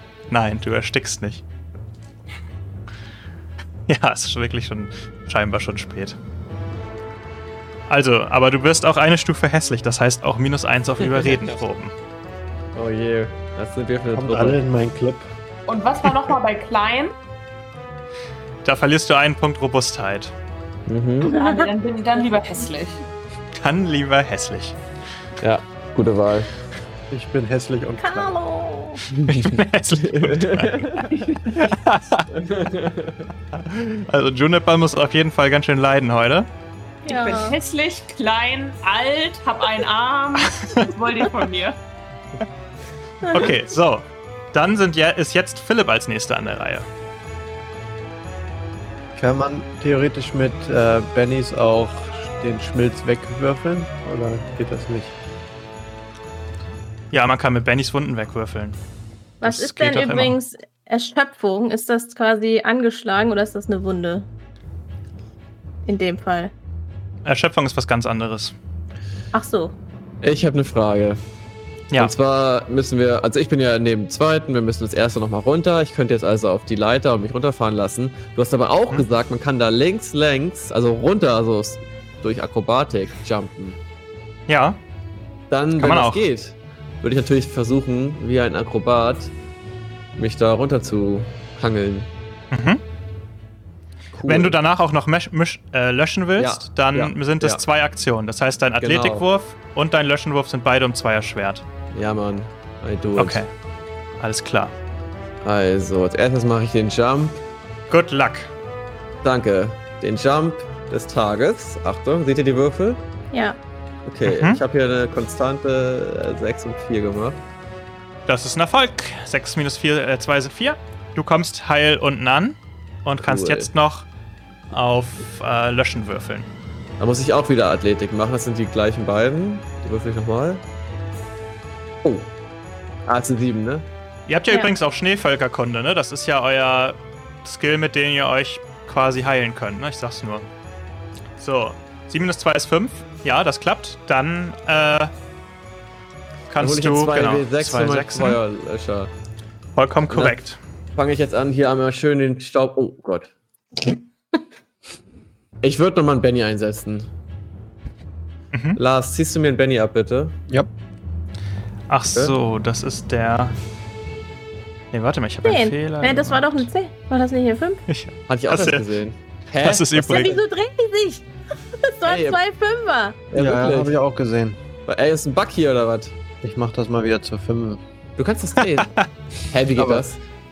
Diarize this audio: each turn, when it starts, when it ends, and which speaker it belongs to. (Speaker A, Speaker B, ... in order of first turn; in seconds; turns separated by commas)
Speaker A: 0.3-1.4, Speaker A: 3.9-6.2, Speaker A: 7.9-11.9, Speaker B: 11.0-11.7, Speaker B: 12.7-14.6, Speaker C: 14.1-15.3, Speaker D: 15.7-17.1, Speaker A: 18.6-20.3, Speaker B: 20.9-21.3, Speaker D: 21.3-23.0, Speaker E: 21.3-21.7, Speaker A: 23.6-24.8, Speaker B: 25.4-26.5, Speaker C: 27.1-28.4, Speaker E: 28.0-29.0, Speaker A: 29.1-32.3, Speaker B: 30.0-31.5, Speaker B: 32.3-33.2, Speaker A: 33.9-36.5, Speaker E: 37.0-37.6, Speaker D: 37.0-41.8, Speaker A: 40.5-40.9, Speaker E: 43.2-43.5, Speaker A: 43.3-46.9, Speaker C: 49.1-55.1, Speaker A: 57.1-58.8, Speaker E: 59.4-64.3, Speaker A: 59.4-60.4, Speaker E: 65.8-66.5, Speaker A: 67.2-68.5, Speaker E: 69.3-69.7, Speaker B: 70.2-71.2, Speaker B: 71.9-83.8, Speaker A: 84.5-84.8, Speaker B: 85.5-89.3, Speaker A: 85.8-86.2, Speaker B: 90.2-92.1, Speaker A: 92.5-92.8, Speaker B: 94.1-94.6, Speaker A: 94.3-101.6, Speaker B: 96.4-97.6, Speaker B: 98.8-99.2, Speaker B: 101.9-103.4, Speaker A: 103.2-103.5, Speaker A: 104.2-104.7, Speaker B: 105.4-107.4, Speaker A: 107.9-108.5, Speaker B: 109.2-113.0, Speaker E: 113.3-113.6, Speaker B: 114.0-117.4, Speaker A: 114.2-114.6, Speaker A: 118.3-124.1, Speaker B: 123.2-123.7, Speaker A: 124.7-126.5, Speaker B: 127.0-130.6, Speaker B: 132.0-132.3, Speaker B: 133.1-133.8, Speaker A: 134.3-140.5, Speaker A: 141.4-145.1, Speaker A: 146.5-148.4, Speaker B: 146.6-149.1, Speaker A: 149.8-150.6, Speaker B: 150.1-150.4, Speaker B: 150.9-153.3, Speaker B: 155.6-157.1, Speaker A: 158.5-158.8, Speaker B: 158.8-160.4, Speaker A: 161.9-163.6, Speaker A: 164.9-166.7, Speaker E: 165.4-167.8, Speaker A: 167.9-168.8, Speaker B: 168.3-170.4, Speaker A: 169.6-170.3, Speaker E: 170.1-171.2, Speaker E: 171.8-173.2, Speaker B: 172.1-172.4, Speaker B: 173.3-173.9, Speaker C: 173.3-174.6, Speaker B: 174.8-176.1, Speaker C: 176.4-177.8, Speaker B: 178.2-180.2, Speaker A: 178.6-179.0, Speaker C: 179.8-180.1